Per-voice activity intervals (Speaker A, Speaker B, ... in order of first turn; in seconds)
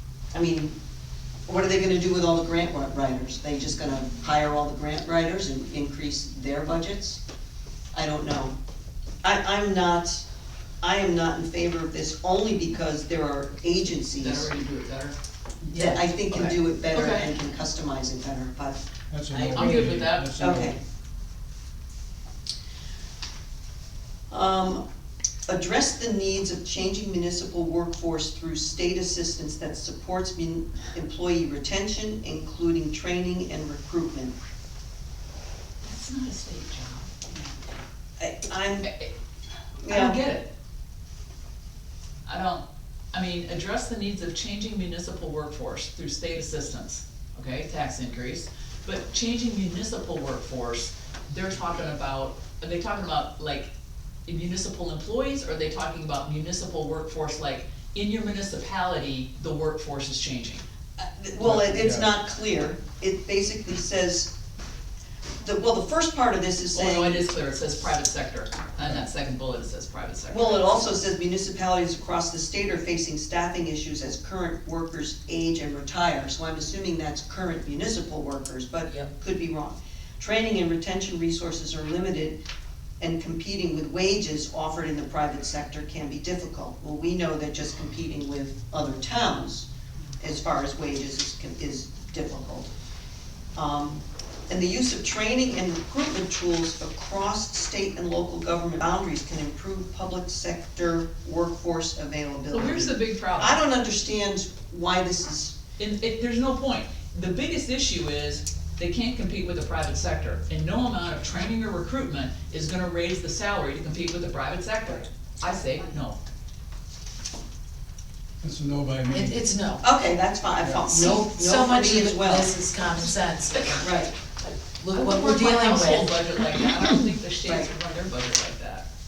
Speaker A: 0.3-0.7, 1.5-7.2, 7.9-8.6, 9.2-10.2, 10.8-14.5, 15.7-18.8, 20.4-20.8, 24.3-24.8, 25.5-34.4, 38.2-38.9, 39.8-40.2, 61.0-64.3, 65.4-67.2, 70.3-82.4, 83.0-89.7, 90.2-92.7, 93.5-105.5, 119.8-122.5, 123.8-124.1
Speaker B: 14.2-15.2, 16.9-17.4, 19.5-20.5, 35.8-37.7, 38.8-39.1, 39.9-40.5, 42.2-53.7, 54.3-60.6, 66.7-70.7, 102.5-103.6, 105.8-116.2, 123.6-123.8, 124.9-128.8
Speaker C: 15.7-16.5, 19.3-20.1, 119.1-119.8, 120.9-123.9, 124.8-126.1
Speaker D: 19.1-20.8, 61.4-62.1, 118.4-119.4